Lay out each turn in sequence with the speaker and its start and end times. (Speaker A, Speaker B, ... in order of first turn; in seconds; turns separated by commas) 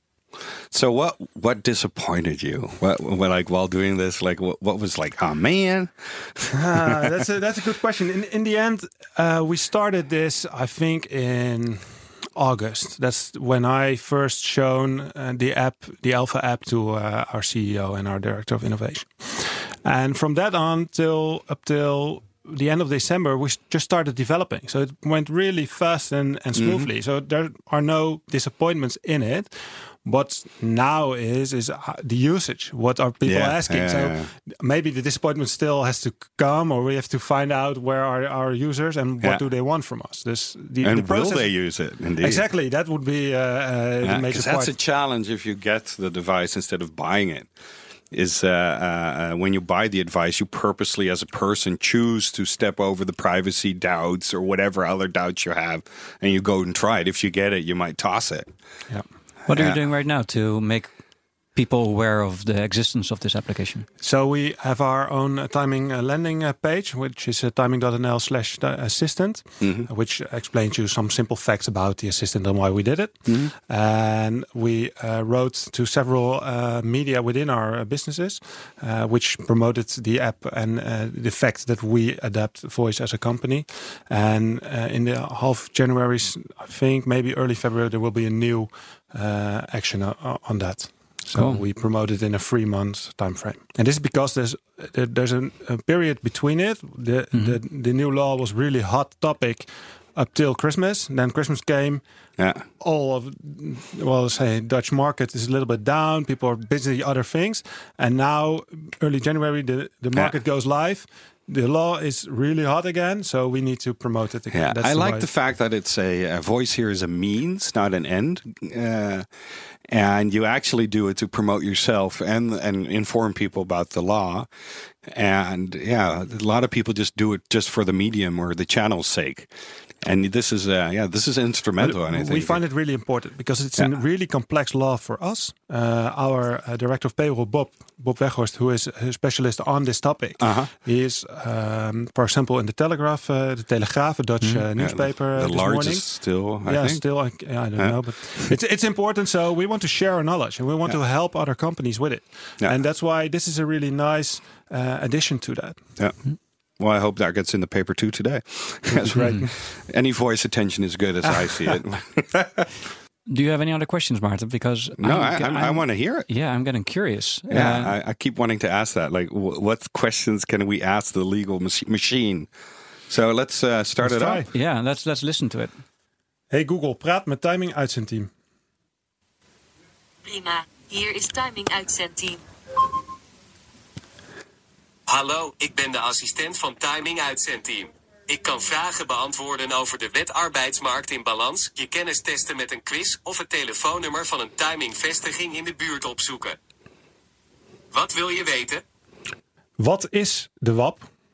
Speaker A: 0.7-7.1, Speaker B: 6.5-41.6, Speaker A: 26.6-26.9, Speaker A: 33.2-34.3, Speaker A: 40.8-42.4, Speaker B: 42.2-44.7, Speaker A: 44.0-47.5, Speaker A: 48.1-58.5, Speaker C: 59.5-60.9, Speaker A: 59.5-59.8, Speaker C: 61.5-63.9, Speaker B: 64.0-102.0, Speaker A: 69.6-69.9, Speaker A: 73.3-73.5, Speaker C: 91.3-91.6, Speaker A: 102.4-102.6, Speaker B: 102.8-115.3, Speaker A: 114.5-119.3, Speaker A: 119.9-124.5, Speaker A: 125.1-129.5, Speaker A: 130.0-132.6, Speaker B: 131.8-155.8, Speaker A: 140.4-140.7, Speaker A: 144.8-147.0, Speaker A: 147.8-148.5, Speaker A: 156.8-162.7, Speaker B: 158.9-159.5, Speaker C: 159.2-159.4, Speaker C: 163.3-168.0, Speaker A: 165.0-166.3, Speaker A: 167.5-172.5, Speaker A: 173.1-174.4, Speaker B: 174.0-174.5, Speaker C: 174.5-175.8, Speaker B: 176.5-178.3, Speaker D: 180.3-182.4, Speaker E: 185.1-196.6, Speaker E: 197.9-198.8, Speaker B: 199.8-201.1